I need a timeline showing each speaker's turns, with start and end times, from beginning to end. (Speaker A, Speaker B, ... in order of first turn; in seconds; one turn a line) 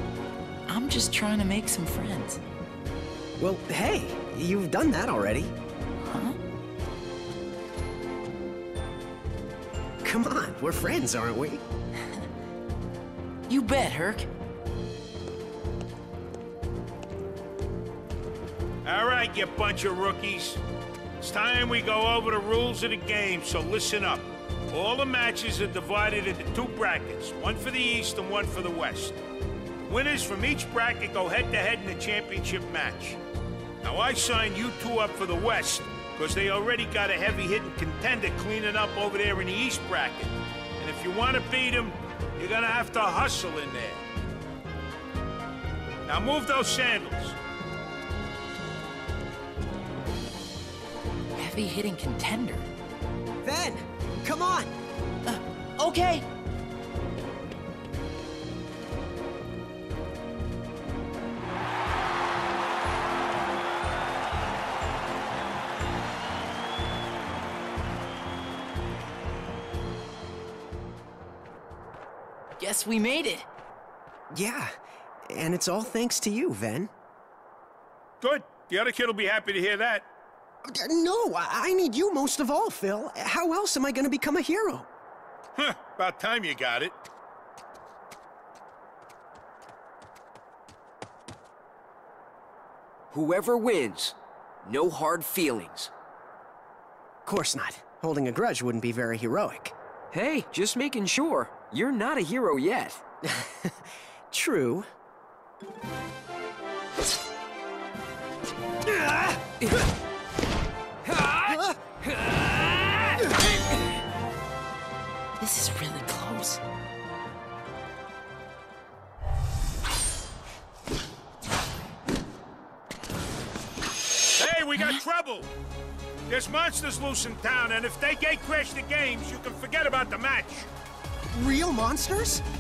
Speaker A: 0.7-2.4
Speaker B: 3.4-5.5
Speaker A: 6.0-6.4
Speaker B: 10.0-11.6
Speaker A: 13.5-14.3
Speaker C: 18.9-20.6
Speaker C: 21.2-29.1
Speaker C: 29.8-33.2
Speaker C: 33.8-44.0
Speaker C: 46.1-47.4
Speaker A: 51.4-52.7
Speaker B: 53.4-54.7
Speaker A: 55.2-56.3
Speaker A: 72.6-73.5
Speaker B: 74.3-74.7
Speaker B: 75.3-76.9
Speaker C: 78.2-80.1
Speaker B: 80.6-84.9
Speaker C: 85.6-86.9
Speaker D: 93.1-95.9
Speaker B: 97.2-99.7
Speaker D: 100.1-103.0
Speaker B: 103.2-104.9
Speaker D: 111.0-113.2
Speaker B: 111.5-111.8
Speaker A: 115.4-116.6
Speaker C: 124.3-125.5
Speaker C: 126.3-130.7
Speaker B: 131.3-132.4